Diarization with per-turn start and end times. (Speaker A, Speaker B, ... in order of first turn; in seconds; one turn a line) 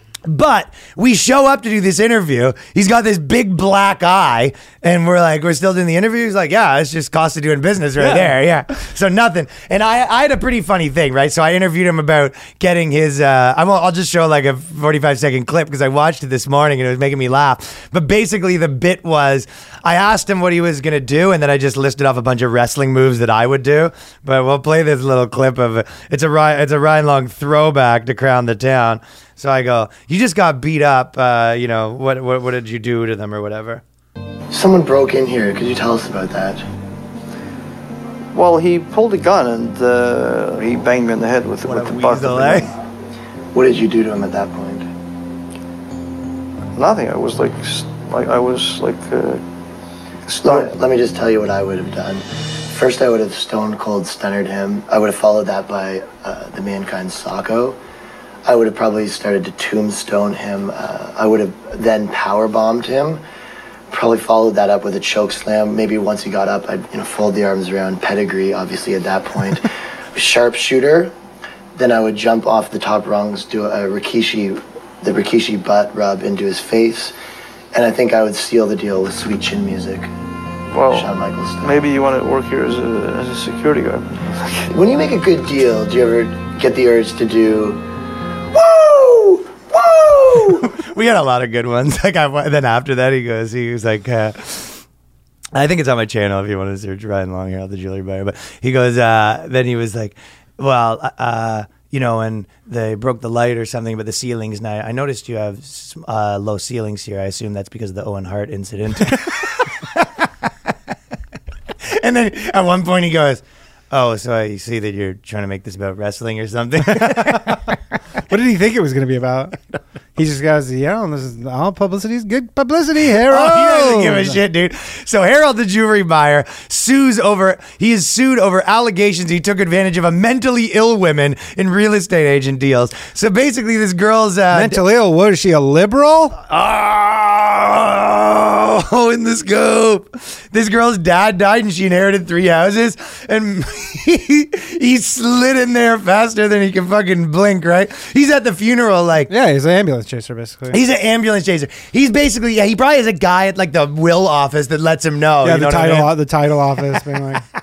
Speaker A: 0.2-33.8
Speaker B: 8.0-8.3
Speaker C: 34.5-36.6
Speaker D: 38.3-42.7
Speaker A: 41.6-42.7
Speaker C: 43.5-44.9
Speaker D: 46.8-49.4
Speaker D: 50.3-50.7
Speaker C: 50.4-57.8
Speaker C: 58.5-63.2
Speaker C: 63.9-71.1
Speaker C: 71.8-77.1
Speaker C: 77.7-80.1
Speaker D: 80.7-84.7
Speaker C: 80.9-81.9
Speaker C: 84.7-87.8
Speaker C: 88.5-90.7
Speaker A: 90.6-94.8
Speaker A: 95.5-110.1
Speaker A: 111.8-117.7
Speaker B: 117.0-117.5
Speaker B: 118.3-119.6
Speaker B: 120.1-124.4
Speaker A: 123.3-134.8
Speaker B: 134.5-136.4
Speaker A: 136.4-149.3
Speaker B: 149.3-150.8
Speaker A: 150.7-156.1
Speaker B: 155.4-157.4